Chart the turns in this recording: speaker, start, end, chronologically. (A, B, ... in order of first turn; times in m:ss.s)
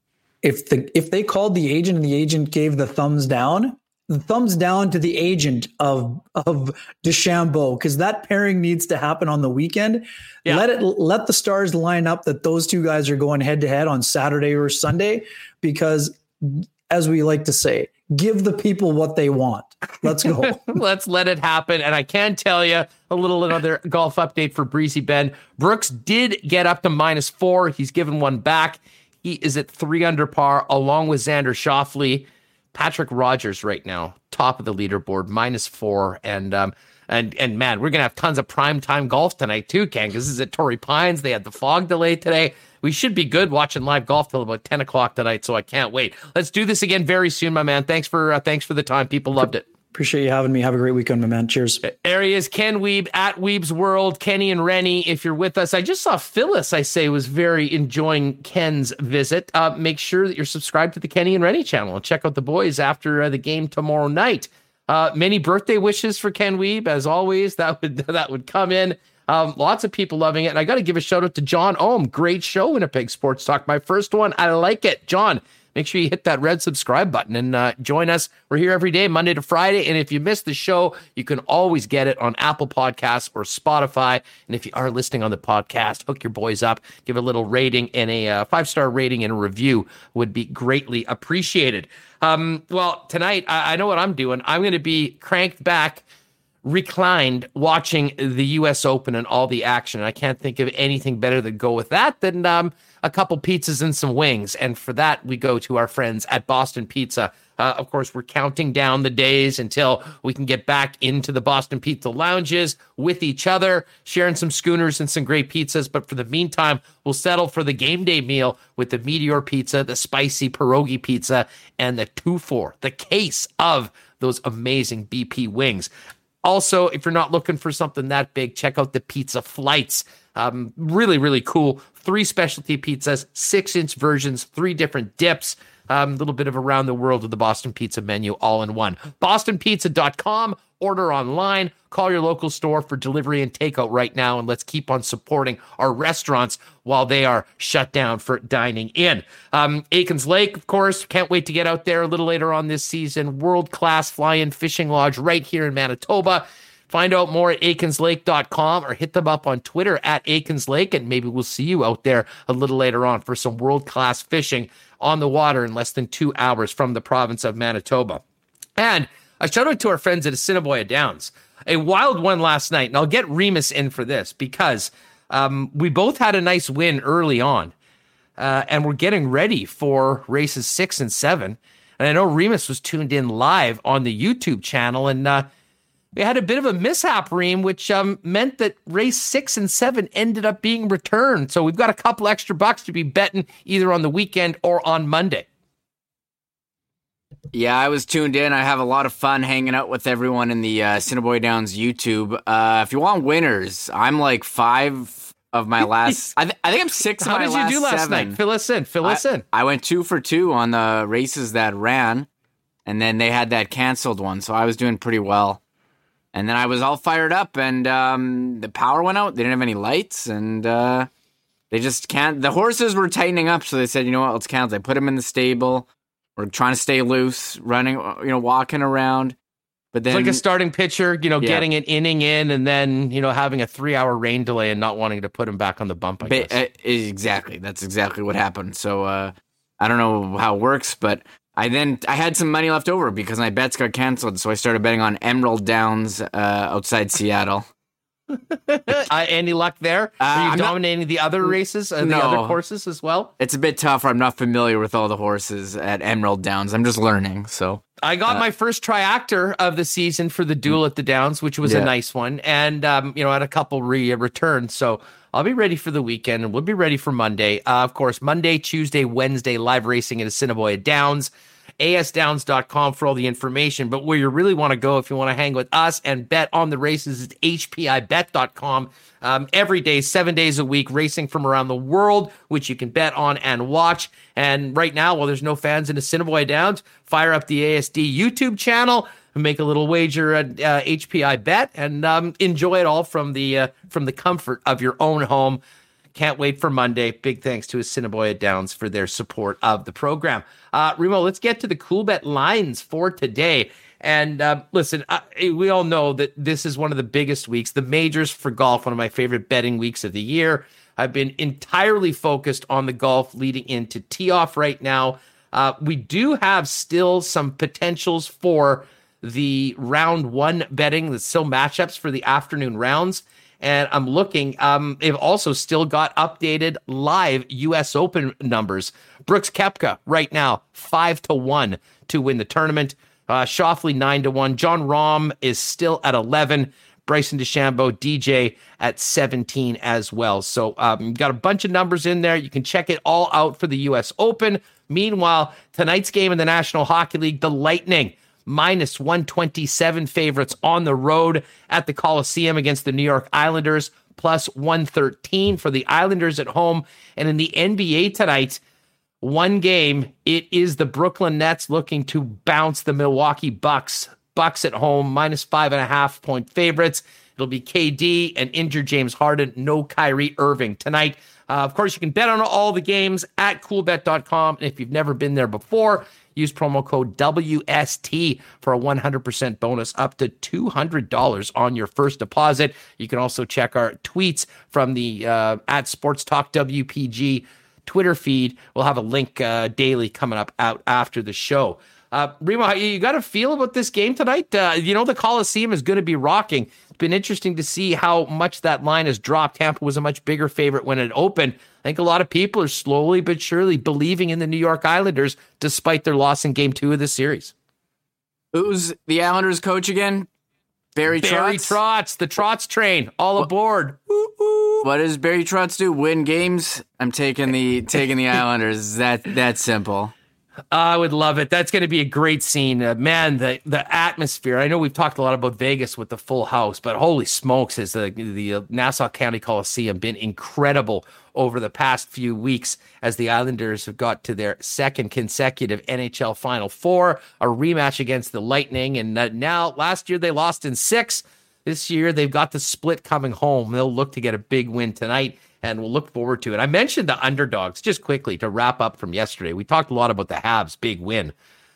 0:00.4-0:20.7 A
0:20.4-0:49.6 B
0:49.9-0:51.8 A
0:51.8-1:36.0 B
1:36.6-2:05.9 B
2:06.4-2:48.2 B
2:48.8-2:57.7 B
2:58.4-3:05.5 B
3:06.1-3:15.5 B
3:17.5-3:28.4 C
3:25.8-3:26.3 B
3:27.2-3:29.4 B
3:29.0-3:32.3 C
3:32.8-3:35.6 C
3:36.3-3:41.1 C
3:41.7-3:49.4 C
3:49.9-3:50.4 C
3:50.1-3:56.5 B
3:51.4-3:51.7 C
3:56.2-4:07.7 C
4:08.5-4:13.3 B
4:10.2-4:10.8 C
4:11.4-4:12.6 C
4:13.4-4:18.4 C
4:18.0-4:55.6 B
4:21.6-4:21.9 C
4:56.1-5:58.6 B
5:59.2-6:47.5 B
6:48.5-6:50.3 C
6:50.9-6:51.8 C
6:51.2-6:54.8 B
6:54.8-7:00.1 C
7:00.7-7:31.3 B